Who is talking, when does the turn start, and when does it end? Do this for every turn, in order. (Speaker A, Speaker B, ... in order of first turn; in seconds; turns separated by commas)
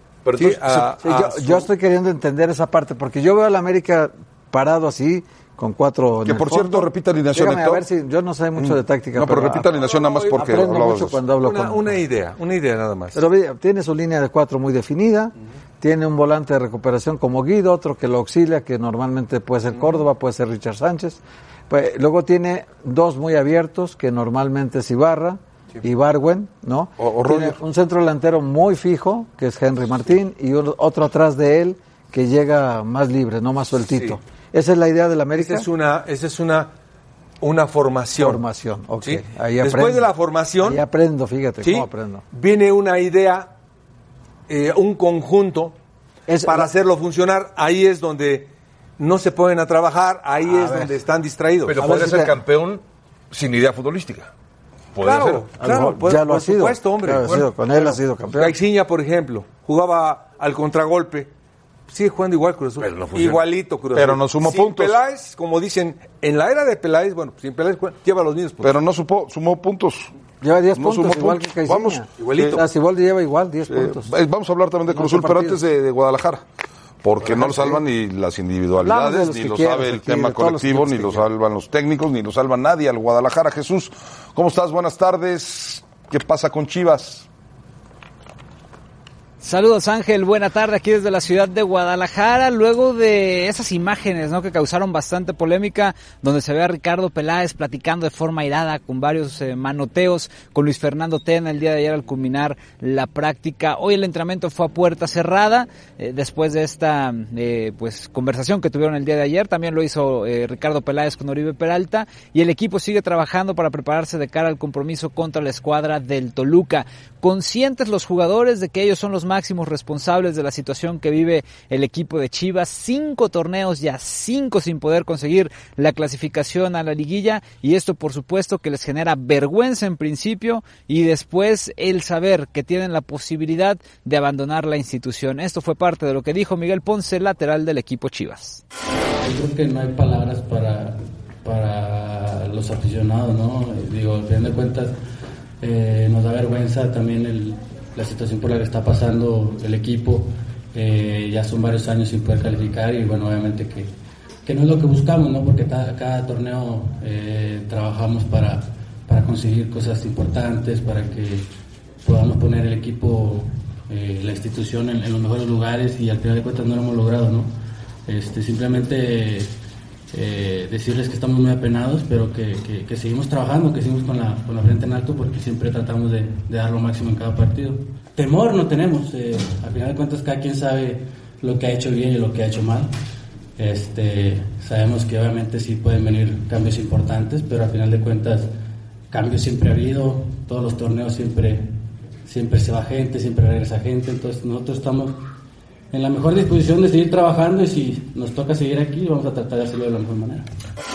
Speaker A: 0.2-0.9, Speaker B: 0.3-1.7, Speaker C: 1.0-9.7, Speaker D: 6.2-7.9, Speaker D: 8.6-11.2, Speaker B: 9.7-10.8, Speaker C: 10.3-12.0, Speaker B: 11.4-13.2, Speaker C: 13.1-35.6, Speaker D: 27.0-27.6, Speaker B: 33.9-34.2, Speaker B: 35.3-36.7, Speaker B: 37.4-38.4, Speaker C: 38.2-40.1, Speaker B: 39.0-40.8, Speaker C: 40.6-42.2, Speaker B: 41.6-43.5, Speaker B: 44.5-45.7, Speaker C: 46.3-46.7, Speaker B: 46.4-51.8, Speaker C: 50.5-50.9, Speaker A: 51.6-54.3, Speaker C: 51.8-52.3, Speaker A: 54.9-55.5, Speaker B: 55.0-61.3, Speaker C: 55.6-58.5, Speaker B: 61.9-68.7, Speaker A: 62.8-63.4, Speaker D: 63.9-65.0, Speaker D: 68.6-70.1, Speaker C: 70.4-74.1, Speaker D: 70.7-72.6, Speaker B: 72.2-72.6, Speaker D: 73.7-76.4, Speaker C: 74.9-75.6, Speaker D: 77.0-87.3, Speaker C: 77.2-77.8, Speaker C: 78.8-81.2, Speaker E: 89.4-138.6, Speaker F: 139.2-144.9, Speaker F: 145.6-153.9, Speaker F: 154.4-161.5, Speaker F: 162.0-167.5, Speaker F: 168.1-169.5, Speaker F: 170.1-182.9, Speaker F: 183.6-188.5, Speaker F: 189.1-195.2, Speaker F: 195.9-200.4